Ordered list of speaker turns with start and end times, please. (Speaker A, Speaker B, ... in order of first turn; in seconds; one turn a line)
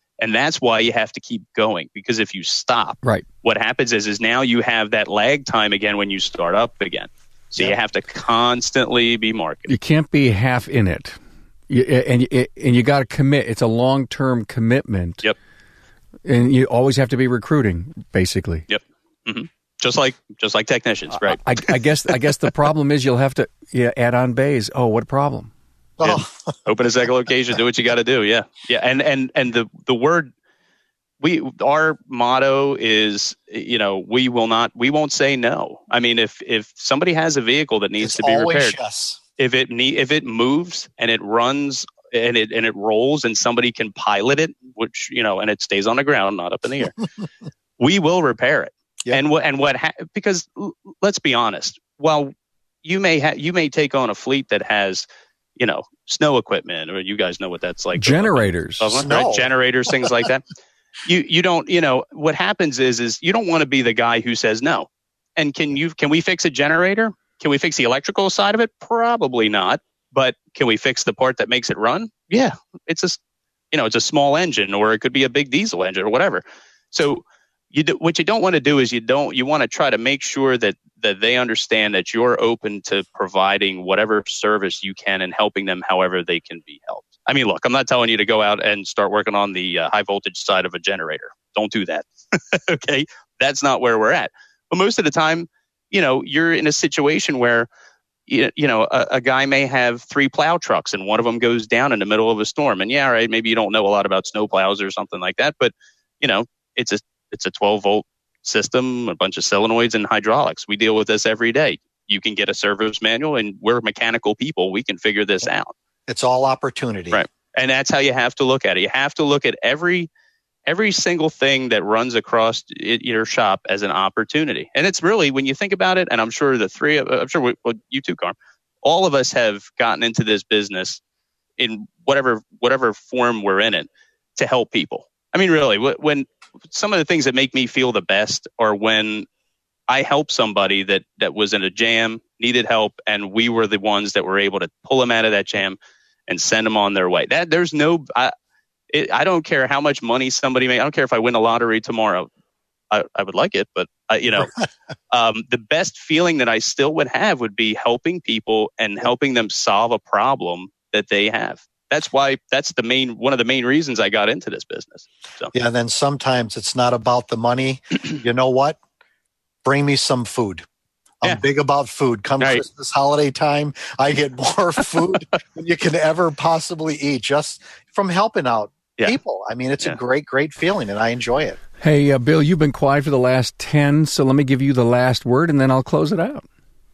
Speaker A: 0.2-9.7
Speaker B: 9.7-11.2
Speaker B: 11.7-15.2
Speaker B: 16.2-18.6
Speaker A: 18.7-21.4
Speaker B: 21.1-25.5
Speaker C: 26.0-26.5
Speaker A: 26.0-30.3
Speaker A: 31.2-38.8
Speaker C: 38.0-39.2
Speaker A: 39.4-47.0
Speaker A: 47.8-52.3
Speaker A: 52.8-55.0
Speaker A: 55.6-60.4
Speaker B: 57.9-58.9
Speaker C: 58.9-59.5
Speaker A: 61.0-73.2
Speaker A: 73.7-97.7
Speaker A: 98.3-115.7
Speaker C: 116.1-117.2
Speaker A: 117.1-120.1
Speaker A: 120.7-131.0
Speaker A: 131.6-139.3
Speaker A: 139.9-145.8
Speaker A: 146.3-148.3
Speaker A: 148.9-152.3
Speaker A: 152.9-154.5
Speaker A: 155.1-165.5
Speaker C: 165.5-168.8
Speaker C: 169.6-170.7
Speaker C: 171.2-181.6
Speaker B: 181.8-186.4